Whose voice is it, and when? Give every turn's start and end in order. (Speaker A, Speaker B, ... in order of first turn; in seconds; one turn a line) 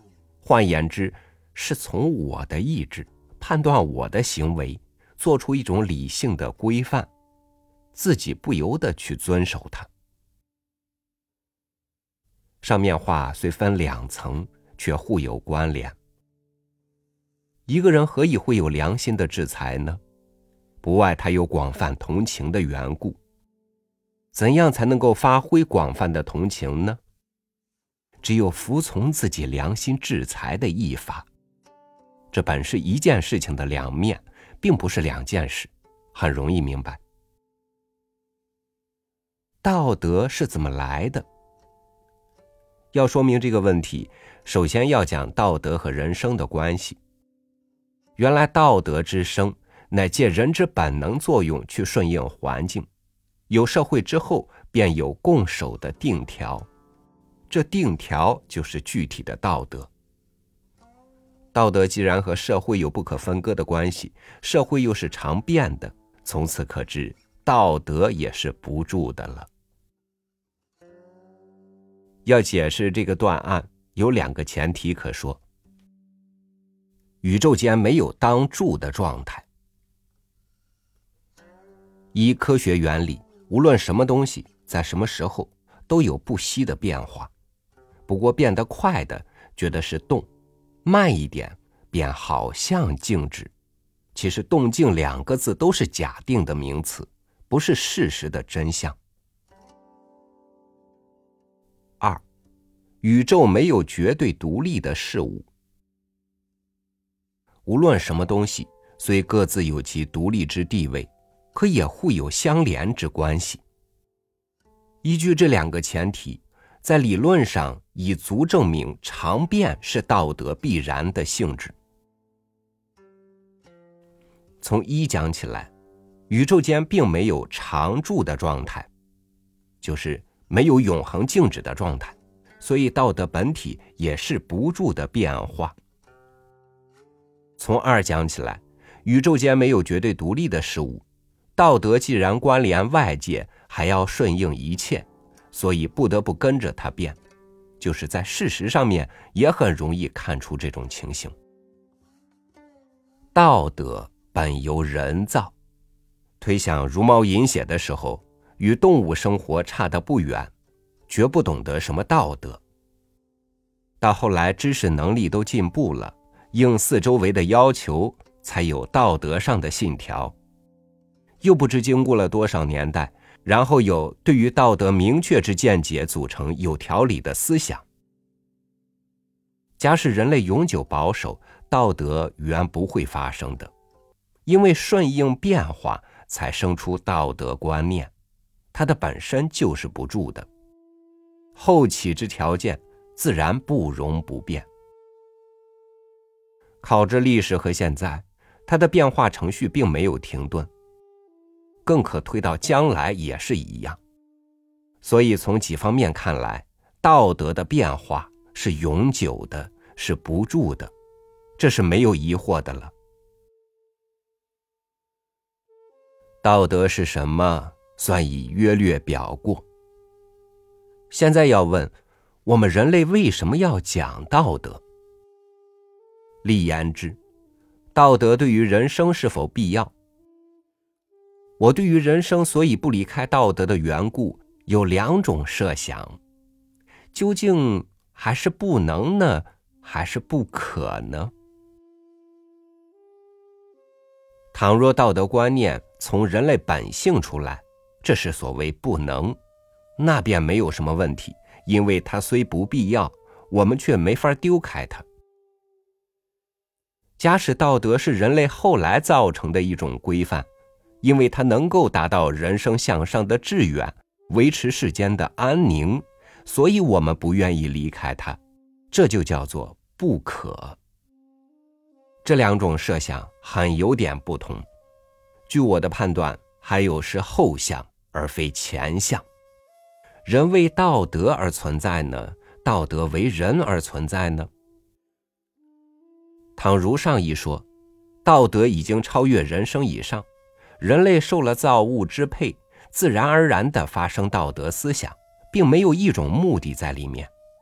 Speaker A: 0.4-7.1
Speaker A: 7.9-9.9
Speaker A: 12.6-15.9
Speaker A: 17.6-20.0
Speaker A: 20.8-23.2
Speaker A: 24.3-27.0
Speaker A: 28.2-31.3
Speaker A: 32.3-37.0
Speaker A: 39.6-41.2
Speaker A: 42.9-47.0
Speaker A: 48.2-52.9
Speaker A: 53.5-56.7
Speaker A: 57.5-59.9
Speaker A: 61.5-69.5
Speaker A: 72.2-75.4
Speaker A: 77.2-79.5
Speaker A: 82.1-87.3
Speaker A: 88.1-90.3
Speaker A: 90.8-93.5
Speaker A: 94.1-99.0
Speaker A: 103.0-105.5
Speaker A: 107.7-113.6
Speaker A: 115.0-121.7
Speaker A: 124.6-125.7
Speaker A: 126.3-128.9
Speaker A: 129.8-135.8
Speaker A: 137.6-141.0
Speaker A: 141.6-147.2
Speaker A: 147.8-151.3
Speaker A: 153.3-155.5
Speaker A: 156.4-160.5
Speaker A: 161.1-162.6
Speaker A: 164.0-170.3
Speaker A: 171.4-177.8
Speaker A: 179.8-183.7
Speaker A: 184.4-188.1
Speaker A: 188.7-190.5
Speaker A: 191.6-194.7
Speaker A: 196.8-200.7
Speaker A: 201.8-204.0
Speaker A: 205.0-210.9
Speaker A: 211.6-212.9
Speaker A: 216.4-219.6
Speaker A: 221.1-221.9
Speaker A: 222.4-224.8
Speaker A: 226.4-227.2
Speaker A: 227.9-229.9
Speaker A: 231.6-236.2
Speaker A: 237.1-241.3
Speaker A: 244.5-249.4
Speaker A: 250.0-255.1
Speaker A: 257.2-260.5
Speaker A: 261.0-268.4
Speaker A: 268.9-270.8
Speaker A: 272.2-274.6
Speaker A: 275.5-279.2
Speaker A: 280.2-284.5
Speaker A: 286.6-287.6
Speaker A: 288.2-290.2
Speaker A: 290.8-297.3